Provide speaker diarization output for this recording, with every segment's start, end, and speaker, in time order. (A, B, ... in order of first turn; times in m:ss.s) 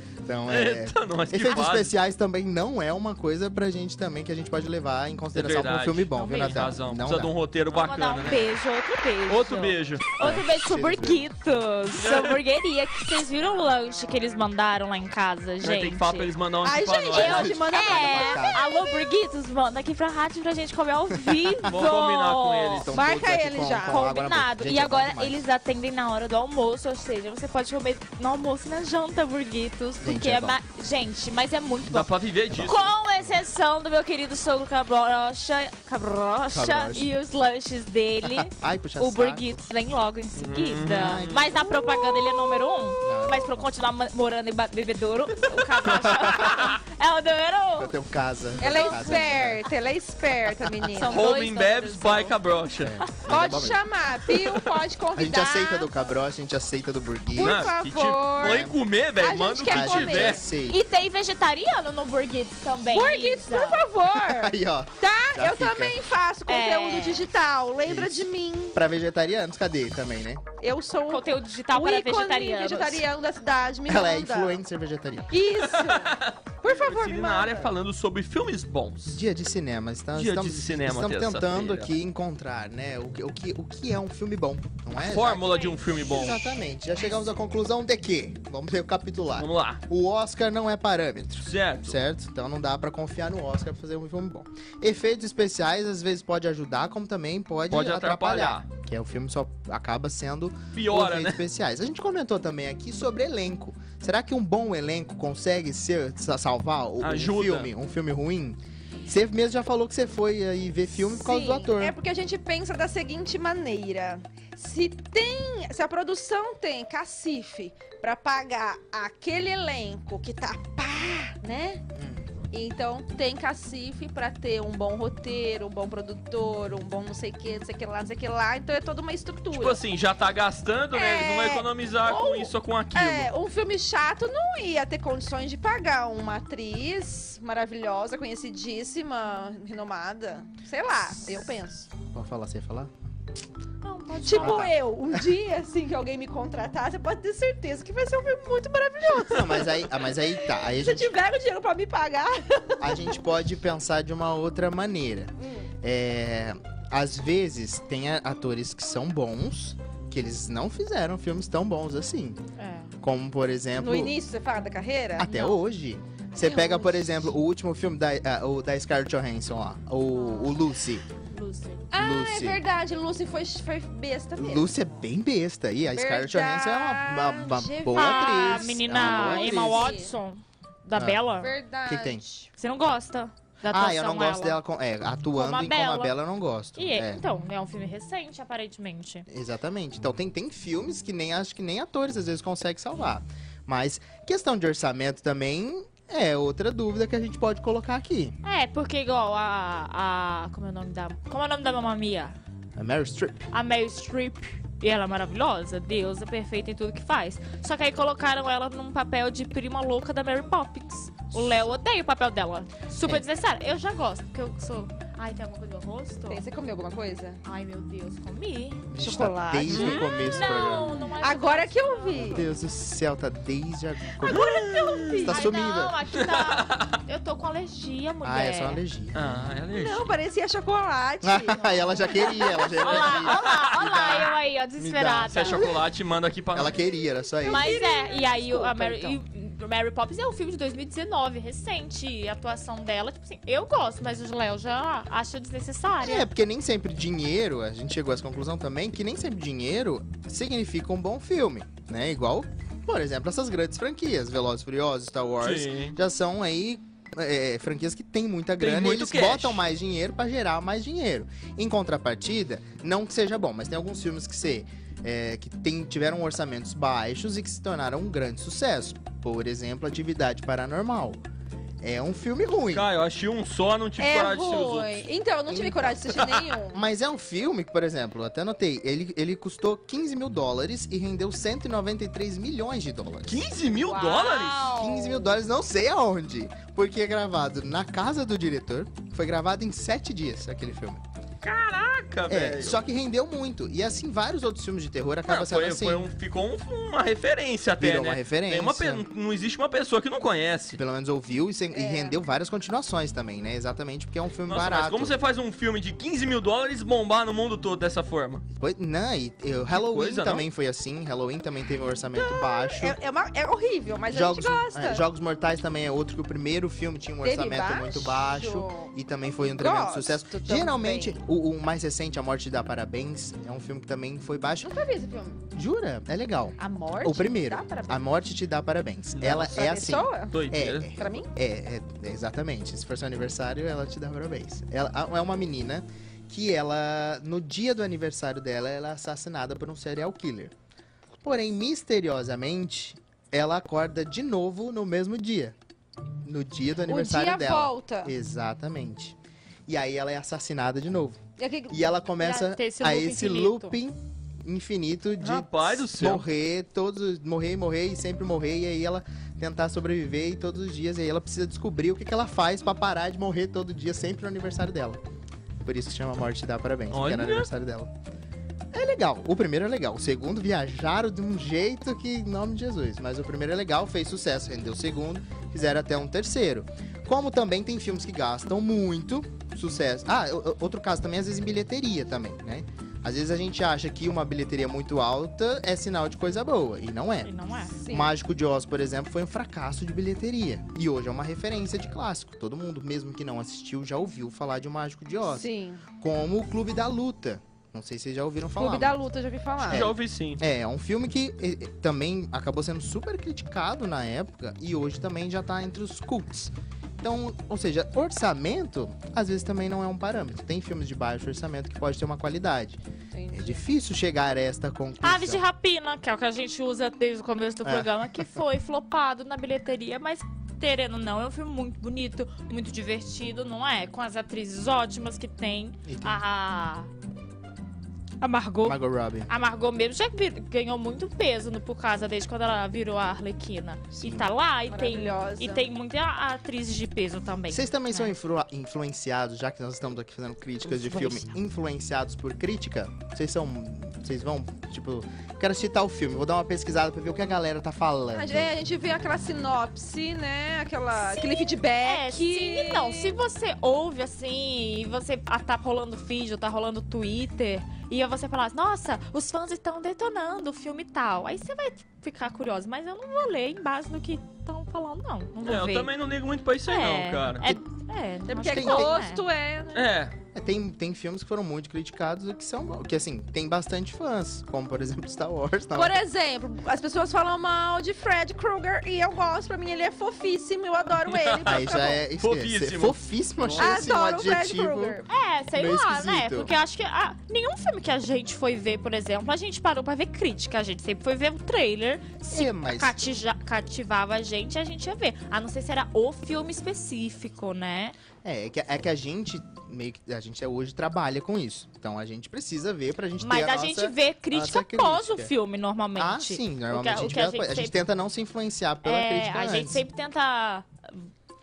0:00.2-0:07.3 A
0:00.5-0:01.9 B
0:05.3-0:08.5 B
0:06.1-0:06.7 C
0:07.7-0:16.3 C
0:09.3-0:10.0 B
0:10.2-0:11.3 A
0:12.0-0:12.4 B
0:15.6-0:17.6 B
0:16.6-0:18.6 D
0:17.1-0:22.9 C
0:17.2-0:18.6 A
0:21.1-0:21.7 A
0:21.7-0:23.0 B
0:22.8-0:25.4 A
0:22.9-0:24.0 D
0:23.9-0:47.9 C
0:30.0-0:30.6 A
0:31.9-0:32.9 B
0:32.6-0:33.3 A
0:36.5-0:37.1 A
0:38.2-0:39.6 A
0:40.4-0:41.4 B
0:40.8-0:41.6 A
0:41.6-0:42.4 D
0:43.0-0:43.7 A
0:45.8-0:46.7 A
0:46.3-0:46.7 B
0:47.8-0:49.6 A
0:48.6-0:49.3 C
0:48.6-0:51.3 D
0:50.9-0:52.4 C
0:51.0-0:53.0 B
0:52.8-0:53.8 A
0:53.3-0:55.9 D
0:54.3-0:54.7 B
0:55.1-0:57.7 A
0:57.3-1:00.5 D
0:57.4-1:00.4 B
0:58.4-0:58.8 A
0:59.7-1:00.8 A
1:00.6-1:03.8 C
1:02.8-1:08.8 D
1:04.2-1:06.0 A
1:06.5-1:07.3 C
1:07.8-1:10.4 A
1:10.6-1:14.6 D
1:11.1-1:13.0 C
1:13.9-1:15.4 A
1:15.3-1:17.7 D
1:15.6-1:19.2 B
1:19.1-1:52.0 A
1:20.1-1:21.9 B
1:25.0-1:26.4 B
1:25.4-1:25.8 C
1:29.4-1:29.8 B
1:31.4-1:32.0 B
1:37.7-1:38.6 B
1:40.7-1:41.4 B
1:47.0-1:47.7 B
1:51.1-2:01.8 D
2:01.9-2:02.2 A
2:02.5-2:09.8 D
2:09.5-2:13.3 B
2:10.9-2:21.9 D
2:22.1-2:22.9 A
2:23.8-2:24.7 C
2:24.2-2:33.1 D
2:24.4-2:25.3 A
2:29.2-2:31.1 A
2:32.8-2:42.4 A
2:35.4-2:35.7 D
2:42.6-2:42.9 C
2:43.0-2:44.1 A
2:43.7-2:45.3 D
2:45.2-2:51.0 A
2:45.2-2:45.6 C
2:46.4-2:47.3 D
2:50.2-2:50.5 C
2:51.3-2:51.9 C
2:51.9-2:54.8 D
2:51.9-2:52.6 A
2:54.4-3:00.0 A
2:55.9-3:00.1 D
2:57.9-3:01.5 C
3:00.9-3:01.2 A
3:01.4-3:02.5 D
3:01.8-3:02.2 A
3:02.6-3:04.6 C
3:03.7-3:07.2 A
3:05.3-3:06.1 C
3:06.8-3:09.2 C
3:09.3-3:18.4 A
3:18.4-3:22.3 C
3:22.8-3:23.5 A
3:23.5-3:36.4 C
3:31.3-3:31.7 A
3:36.3-3:37.4 D
3:37.4-3:38.9 C
3:38.9-3:41.1 A
3:39.0-3:42.4 D
3:39.7-3:40.0 B
3:39.7-3:42.5 C
3:42.1-3:46.0 A
3:44.2-3:45.5 D
3:44.2-3:45.2 B
3:45.2-3:48.8 C
3:46.1-3:47.0 B
3:48.2-3:49.5 A
3:49.1-3:50.1 B
3:49.7-3:53.2 D
3:51.2-3:55.8 A
3:52.7-3:55.7 C
3:53.2-3:54.3 B
3:54.9-3:56.8 B
3:56.5-3:57.7 A
3:57.4-3:59.2 D
3:57.4-4:06.3 C
4:06.0-4:31.2 A
4:15.4-4:15.9 B
4:18.6-4:19.6 B
4:31.8-4:32.9 A
4:32.7-4:35.0 B
4:34.0-4:36.8 D
4:35.5-4:36.0 A
4:36.1-4:36.4 B
4:36.7-4:43.5 A
4:43.2-4:44.7 B
4:43.7-4:45.4 D
4:44.7-4:51.0 A
4:51.4-4:52.8 B
4:52.3-4:56.1 A
4:55.3-5:00.8 B
4:57.8-4:59.1 A
5:00.7-5:05.2 A
5:01.7-5:02.2 D
5:04.5-5:08.4 B
5:08.5-5:13.0 A
5:09.7-5:10.4 B
5:12.1-5:15.0 D
5:14.1-5:24.7 A
5:17.2-5:18.9 D
5:19.6-5:21.2 D
5:24.6-5:25.4 D
5:25.5-5:40.5 A
5:26.6-5:28.0 D
5:29.2-5:30.4 D
5:30.3-5:30.9 B
5:30.9-5:31.3 D
5:41.2-5:45.6 A
5:46.2-5:49.2 A
5:46.8-5:48.1 D
5:49.7-6:05.0 A
5:51.4-5:51.9 D
5:52.2-5:53.8 C
5:55.2-5:56.2 B
6:05.6-6:07.9 A
6:06.9-6:07.5 B
6:08.7-6:27.3 A
6:27.2-6:27.7 C
6:27.8-6:28.1 D
6:27.8-6:39.0 A
6:35.2-6:35.8 D
6:38.6-6:39.9 D
6:39.6-6:40.4 B
6:39.6-6:52.8 A
6:53.1-6:53.6 D
6:53.3-6:55.4 A
6:55.0-7:06.9 C
6:57.6-6:58.3 A
7:05.8-7:06.2 A
7:08.2-7:18.1 C
7:08.6-7:09.3 A
7:13.9-7:14.3 A
7:14.7-7:15.7 D
7:17.5-7:28.5 A
7:20.9-7:21.2 C
7:28.1-7:33.2 D
7:31.0-7:45.9 C
7:45.4-7:47.6 B
7:46.6-7:49.2 C
7:48.3-7:49.9 D
7:48.5-7:49.0 A
7:49.7-7:50.1 B
7:50.3-7:56.0 A
7:55.7-8:02.0 D
8:01.0-8:03.9 B
8:01.4-8:05.0 A
8:03.6-8:05.1 D
8:05.1-8:17.9 C
8:05.5-8:06.5 A
8:12.3-8:13.0 A
8:18.2-8:25.3 A
8:23.2-8:27.8 C
8:26.0-8:29.8 A
8:28.8-8:31.0 C